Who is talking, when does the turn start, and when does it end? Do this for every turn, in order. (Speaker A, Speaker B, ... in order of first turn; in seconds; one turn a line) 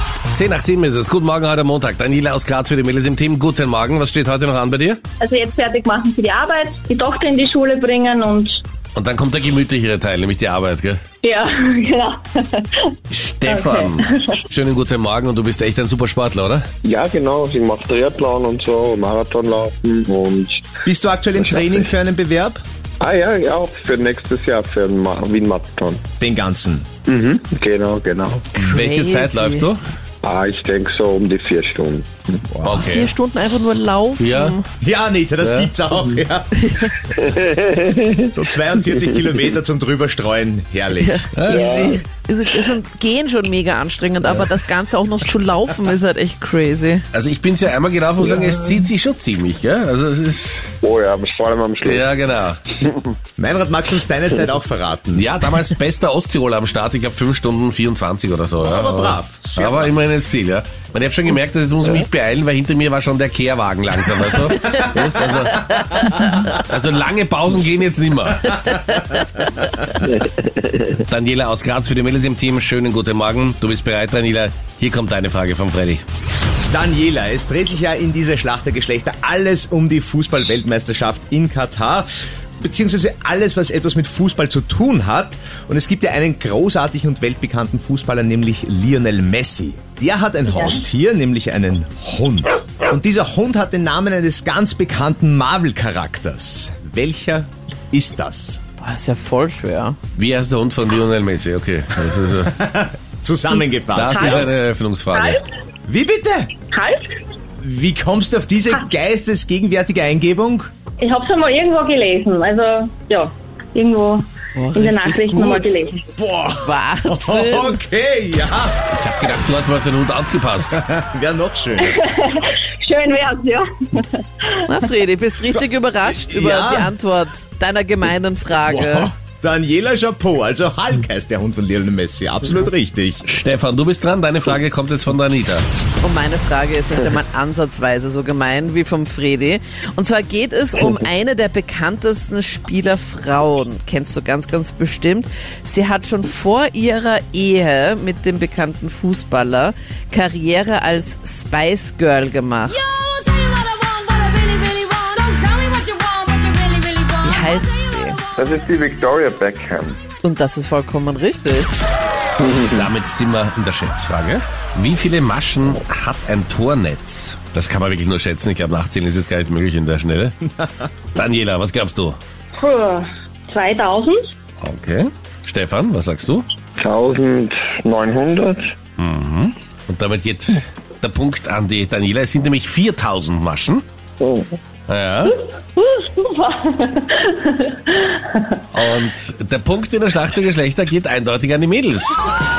Speaker A: 0.3-5.0
Speaker B: 5.2-8.6
Speaker A: 8.9-11.0
Speaker B: 11.2-12.9
Speaker A: 13.1-16.6
Speaker B: 13.4-14.4
Speaker C: 16.8-20.7
Speaker D: 20.9-22.6
Speaker C: 21.4-21.9
Speaker C: 23.0-26.0
Speaker D: 26.2-26.9
Speaker C: 27.1-28.4
Speaker E: 28.5-29.7
Speaker A: 28.6-29.8
Speaker C: 30.2-32.4
Speaker A: 32.6-33.1
Speaker E: 32.6-34.6
Speaker A: 34.2-34.6
Speaker D: 34.8-36.6
Speaker A: 35.4-35.7
Speaker E: 36.6-36.9
Speaker C: 37.2-38.2
Speaker D: 38.3-41.3
Speaker E: 41.0-47.0
Speaker A: 41.3-42.0
Speaker C: 41.5-42.0
Speaker A: 47.1-50.7
Speaker C: 50.8-52.1
Speaker A: 51.8-52.6
Speaker D: 53.4-55.3
Speaker A: 55.1-68.9
Speaker D: 58.6-59.9
Speaker A: 70.6-76.0
Speaker D: 76.7-82.1
Speaker D: 82.6-98.6
Speaker E: 98.8-100.0
Speaker A: 100.2-102.5
Speaker D: 102.5-104.5
Speaker A: 103.9-105.4
Speaker B: 104.1-104.5
Speaker B: 105.1-105.5
Speaker D: 105.9-106.5
Speaker B: 106.7-107.2
Speaker D: 107.6-110.7
Speaker B: 111.0-116.1
Speaker E: 114.5-115.7
Speaker D: 116.2-118.8
Speaker E: 116.6-117.8
Speaker A: 118.9-120.8
Speaker D: 120.7-122.0
Speaker B: 121.8-124.6
Speaker E: 124.7-129.1
Speaker D: 125.5-126.9
Speaker D: 129.2-133.3
Speaker A: 133.2-135.7
Speaker E: 136.0-152.9
Speaker F: 153.1-157.1
Speaker E: 157.2-158.2
Speaker C: 158.4-160.0
Speaker E: 160.2-161.7
Speaker A: 162.5-170.4
Speaker A: 171.2-172.2
Speaker B: 172.6-174.2
Speaker A: 174.6-176.5
Speaker C: 176.8-178.7
Speaker A: 179.0-183.8
Speaker C: 184.2-184.6
Speaker A: 184.9-185.4
Speaker B: 185.5-188.6
Speaker A: 188.7-192.2